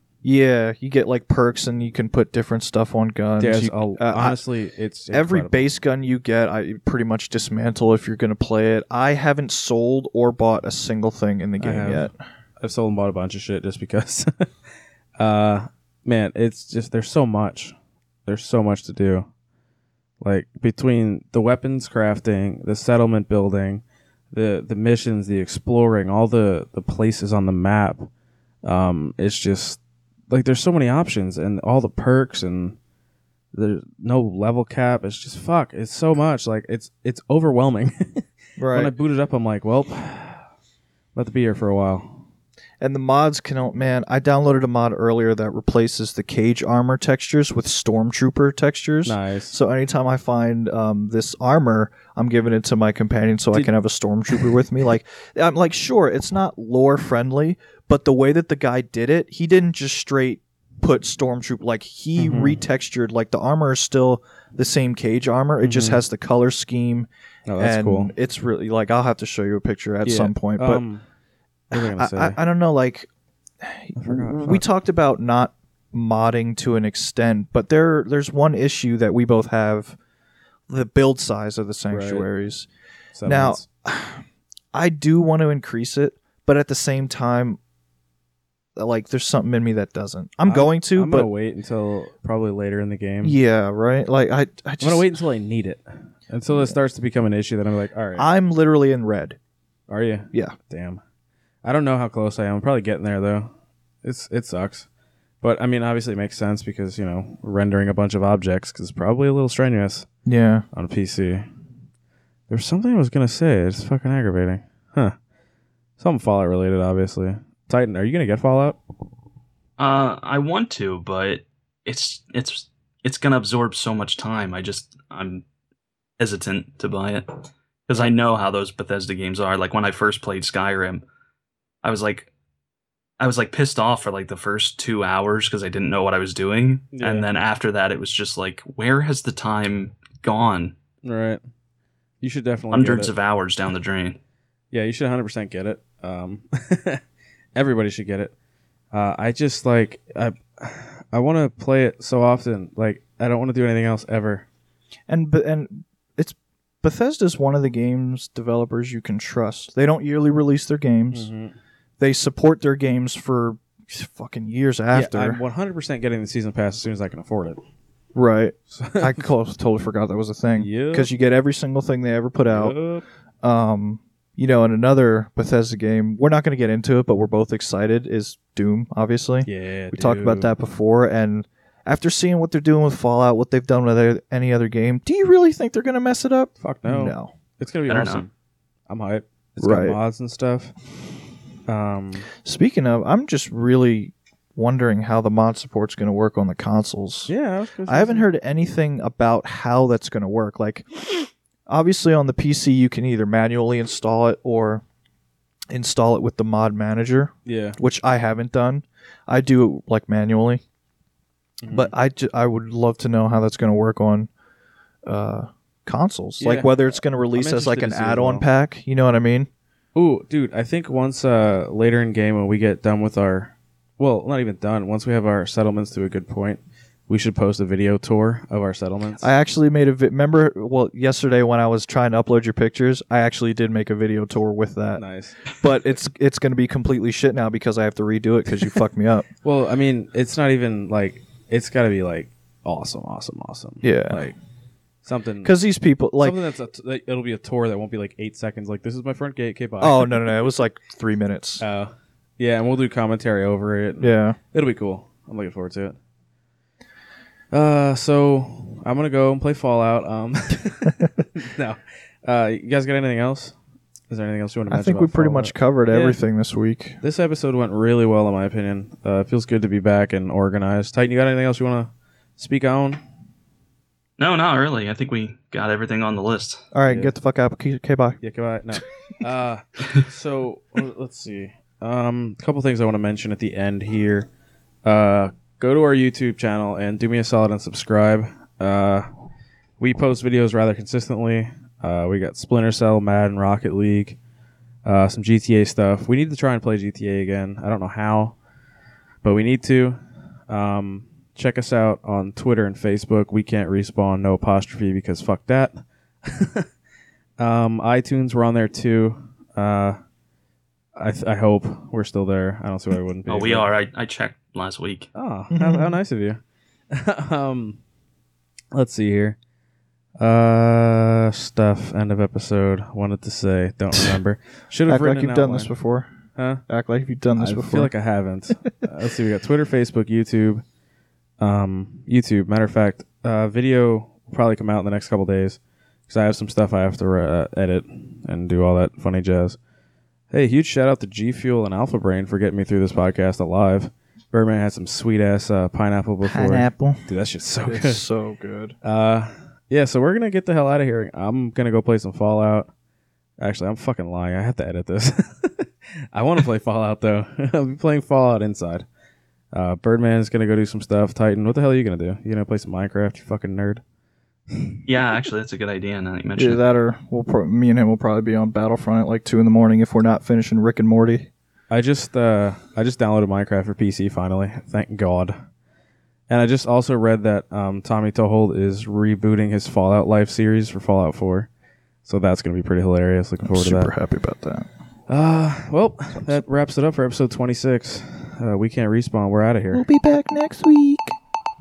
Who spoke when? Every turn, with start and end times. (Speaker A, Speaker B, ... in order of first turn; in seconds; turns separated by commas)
Speaker A: 0.2-4.4, Speaker B: 3.4-5.7, Speaker A: 5.1-12.2, Speaker B: 11.6-14.5, Speaker B: 15.2-17.8, Speaker B: 18.3-19.3, Speaker B: 20.2-28.1, Speaker B: 28.6-29.8, Speaker B: 30.3-32.8, Speaker B: 33.5-40.5, Speaker A: 38.6-38.9, Speaker B: 41.1-42.2, Speaker A: 42.8-70.8, Speaker B: 49.0-49.6, Speaker B: 62.2-62.6, Speaker B: 65.6-66.0, Speaker B: 67.5-68.1, Speaker B: 70.0-71.0, Speaker B: 71.7-72.4, Speaker A: 71.7-73.1, Speaker A: 73.6-80.0, Speaker B: 74.0-74.6, Speaker A: 80.7-82.7, Speaker B: 81.9-82.3, Speaker B: 83.2-83.7, Speaker A: 83.3-87.6, Speaker A: 88.8-91.3, Speaker B: 90.5-93.4, Speaker A: 93.2-95.1, Speaker B: 94.8-98.3, Speaker A: 96.5-96.8, Speaker A: 98.2-99.4, Speaker B: 99.9-101.0, Speaker B: 101.6-103.5, Speaker B: 104.0-104.9, Speaker B: 105.4-110.1, Speaker A: 110.3-110.7, Speaker B: 110.7-111.5, Speaker B: 112.5-115.2, Speaker B: 116.0-118.8, Speaker C: 119.8-125.4, Speaker C: 126.2-131.0, Speaker C: 131.8-132.3, Speaker C: 133.2-140.8, Speaker B: 136.9-137.3, Speaker B: 141.0-141.4, Speaker B: 142.2-143.1, Speaker C: 142.7-144.2, Speaker B: 144.7-147.0, Speaker B: 147.6-148.3, Speaker B: 148.9-154.5, Speaker A: 155.1-161.3, Speaker B: 161.1-161.6, Speaker A: 162.0-165.4, Speaker B: 164.9-167.6, Speaker A: 168.2-172.8, Speaker B: 168.7-169.2, Speaker B: 170.6-171.1, Speaker B: 172.4-173.0, Speaker A: 173.4-187.3, Speaker B: 179.5-180.5, Speaker B: 186.6-188.3, Speaker C: 187.9-188.2, Speaker B: 188.9-190.7, Speaker A: 189.6-190.0, Speaker B: 191.7-192.3, Speaker A: 192.4-197.3, Speaker B: 197.3-198.3, Speaker A: 197.9-204.8, Speaker A: 205.7-210.6, Speaker B: 207.5-207.8, Speaker B: 211.6-211.9, Speaker A: 211.7-214.3, Speaker A: 215.1-219.5, Speaker B: 216.4-218.5, Speaker B: 219.9-229.3, Speaker A: 229.2-239.3, Speaker B: 234.9-235.5, Speaker B: 239.4-244.4, Speaker A: 243.8-244.2, Speaker B: 245.0-245.5, Speaker A: 245.4-246.4, Speaker B: 246.2-250.2, Speaker A: 249.8-251.6, Speaker B: 251.6-256.0, Speaker A: 254.0-254.4, Speaker B: 257.5-263.6, Speaker B: 264.1-266.2, Speaker A: 264.7-267.0, Speaker B: 267.0-273.0, Speaker C: 274.2-276.6, Speaker A: 276.7-278.2, Speaker B: 276.9-277.1, Speaker B: 278.2-284.3, Speaker B: 284.9-289.1, Speaker B: 289.8-294.2, Speaker B: 294.9-298.4, Speaker B: 299.2-306.7, Speaker B: 307.4-310.0, Speaker B: 311.0-313.7, Speaker C: 313.3-315.1, Speaker B: 315.1-317.8, Speaker A: 315.5-316.0, Speaker B: 318.7-319.4, Speaker B: 320.2-325.7, Speaker A: 324.9-326.1, Speaker B: 326.4-326.6, Speaker A: 326.7-327.9, Speaker B: 327.4-330.6, Speaker B: 331.4-339.6, Speaker B: 340.3-348.0, Speaker A: 346.3-347.0, Speaker A: 347.6-348.8, Speaker B: 348.8-352.7, Speaker B: 353.4-358.9, Speaker B: 359.5-363.8, Speaker B: 364.5-364.8, Speaker C: 364.9-366.6, Speaker A: 366.4-371.3, Speaker B: 371.7-375.4, Speaker B: 376.3-381.5, Speaker B: 382.1-383.9, Speaker A: 383.5-384.7, Speaker B: 385.1-389.9, Speaker A: 386.1-386.4, Speaker A: 389.7-391.2